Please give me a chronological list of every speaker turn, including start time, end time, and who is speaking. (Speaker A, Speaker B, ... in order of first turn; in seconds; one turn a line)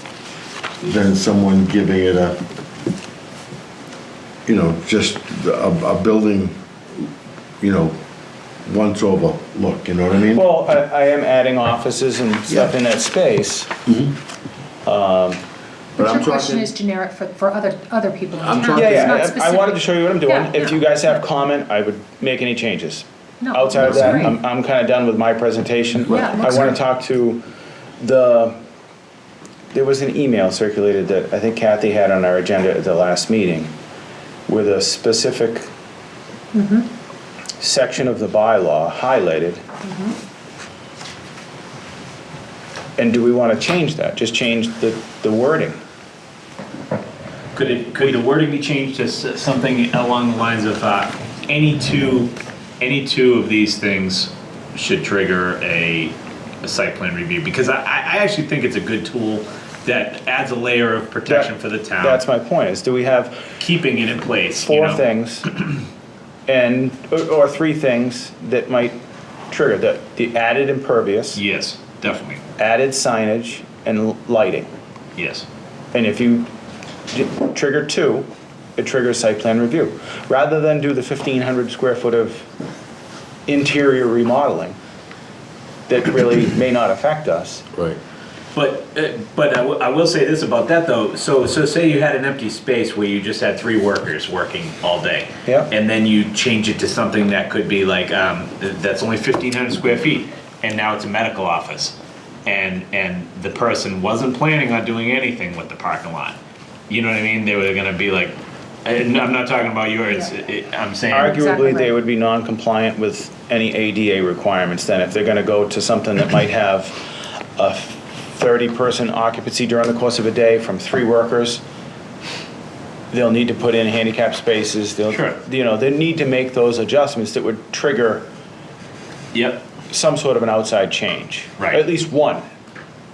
Speaker A: 0.8-2.4
Speaker A: 4.5-7.1
Speaker A: 7.6-8.0
Speaker A: 8.7-10.4
Speaker B: 10.3-13.7
Speaker A: 13.9-14.2
Speaker B: 14.9-15.4
Speaker A: 16.0-16.7
Speaker C: 16.0-20.8
Speaker A: 18.4-19.2
Speaker B: 18.7-27.4
Speaker C: 23.4-24.4
Speaker C: 26.1-26.7
Speaker A: 26.1-26.5
Speaker B: 28.0-28.6
Speaker B: 29.7-33.7
Speaker B: 34.5-35.7
Speaker C: 36.5-36.9
Speaker B: 37.6-39.6
Speaker C: 39.8-40.2
Speaker B: 43.0-45.8
Speaker D: 47.5-62.2
Speaker B: 61.3-63.5
Speaker D: 63.6-65.0
Speaker B: 64.6-65.5
Speaker B: 66.5-71.4
Speaker D: 71.3-72.4
Speaker B: 72.6-74.7
Speaker D: 75.2-75.5
Speaker B: 75.9-76.5
Speaker B: 77.1-82.5
Speaker B: 83.5-84.8
Speaker B: 85.9-87.7
Speaker A: 87.7-88.0
Speaker D: 88.5-102.0
Speaker D: 102.5-106.4
Speaker D: 106.9-111.3
Speaker B: 111.1-121.6
Speaker C: 111.3-111.9
Speaker B: 123.1-128.3
Speaker D: 125.1-125.4
Speaker D: 129.3-129.6
Speaker B: 129.9-132.5
Speaker D: 131.6-131.8